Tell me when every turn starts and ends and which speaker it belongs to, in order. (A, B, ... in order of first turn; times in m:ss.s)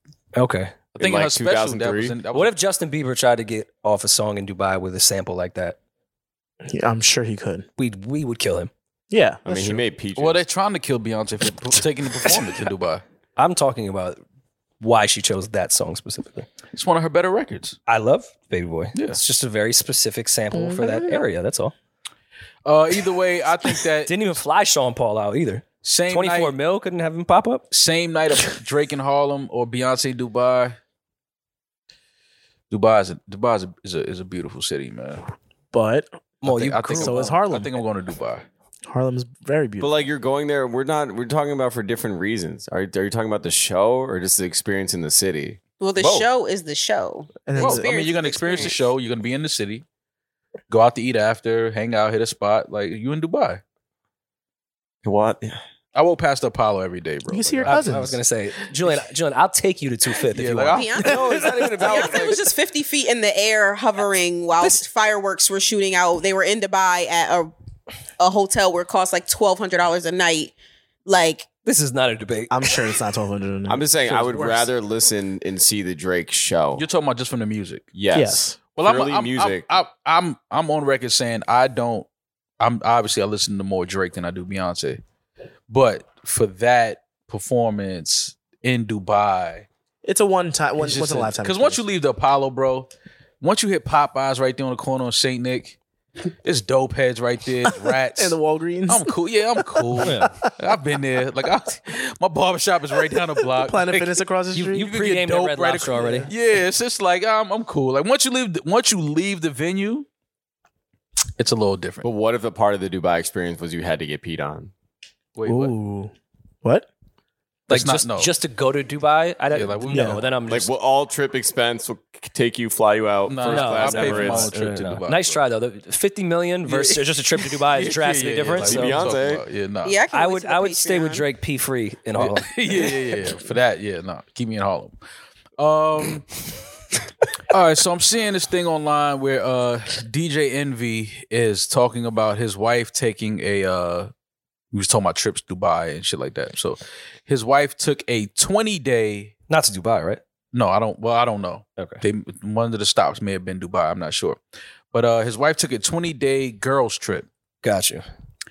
0:00.3-0:00.8 A
0:01.0-0:02.5 B
0:01.0-0:02.2 C
0:02.3-0:05.8 A
0:06.6-0:07.6 D
0:07.8-0:08.7 A
0:09.1-0:09.8 D
0:09.4-0:10.4 C
0:10.2-0:13.0 B
0:13.4-0:14.2 A
0:14.8-0:16.5 A
0:16.7-0:17.8 B
0:17.9-0:21.7 A
0:20.5-0:21.2 D
0:22.6-0:24.1 B
0:24.0-0:27.6 A
0:25.8-0:26.5 B
0:27.7-0:30.8 B
0:32.7-0:35.2 B
0:35.7-0:36.1 D
0:36.4-0:37.4 A
0:36.4-0:38.4 B
0:36.9-0:37.7 D
0:38.8-0:39.9 D
0:39.8-0:46.2 C
0:45.8-0:48.8 E
0:47.4-0:47.9 D
0:47.6-0:49.8 B
0:50.7-0:53.6 B
0:55.0-0:55.6 C
0:55.9-0:58.0 B
0:57.3-0:58.2 D
0:57.6-1:02.0 A
1:00.3-1:01.0 B
1:00.7-1:07.5 E
1:01.0-1:02.4 C
1:08.2-1:10.5 E
1:11.0-1:11.5 E
1:11.6-1:12.7 A
1:12.5-1:14.7 D
1:13.7-1:16.8 C
1:16.8-1:17.8 B
1:17.9-1:19.7 C
1:18.1-1:18.6 D
1:18.8-1:22.1 B
1:22.6-1:25.0 B
1:25.7-1:29.7 B
1:30.0-1:31.8 D
1:30.8-1:32.9 B
1:33.4-1:35.8 B
1:36.4-1:38.4 B
1:38.1-1:40.5 D
1:38.9-1:44.2 B
1:40.0-1:40.3 A
1:43.4-1:45.0 D
1:44.5-1:46.3 A
1:44.7-1:50.1 B
1:45.7-1:46.3 D
1:51.4-1:52.1 B
1:52.0-1:54.7 C
1:55.3-1:55.7 B
1:55.4-1:56.9 D
1:57.7-1:58.3 B
1:57.7-2:00.7 A
1:59.5-2:00.1 B
1:59.9-2:00.2 D
2:00.5-2:04.5 C
2:03.3-2:05.4 B
2:03.4-2:09.1 A
2:04.4-2:04.9 D
2:06.7-2:10.0 B
2:08.6-2:09.4 C
2:09.8-2:11.2 E
2:10.1-2:12.8 A
2:12.2-2:15.0 B
2:15.6-2:16.3 B
2:17.5-2:24.1 B
2:24.7-2:29.3 B
2:29.5-2:30.2 A
2:30.5-2:34.4 B
2:31.8-2:32.0 A
2:34.9-2:37.3 B
2:37.6-2:38.0 A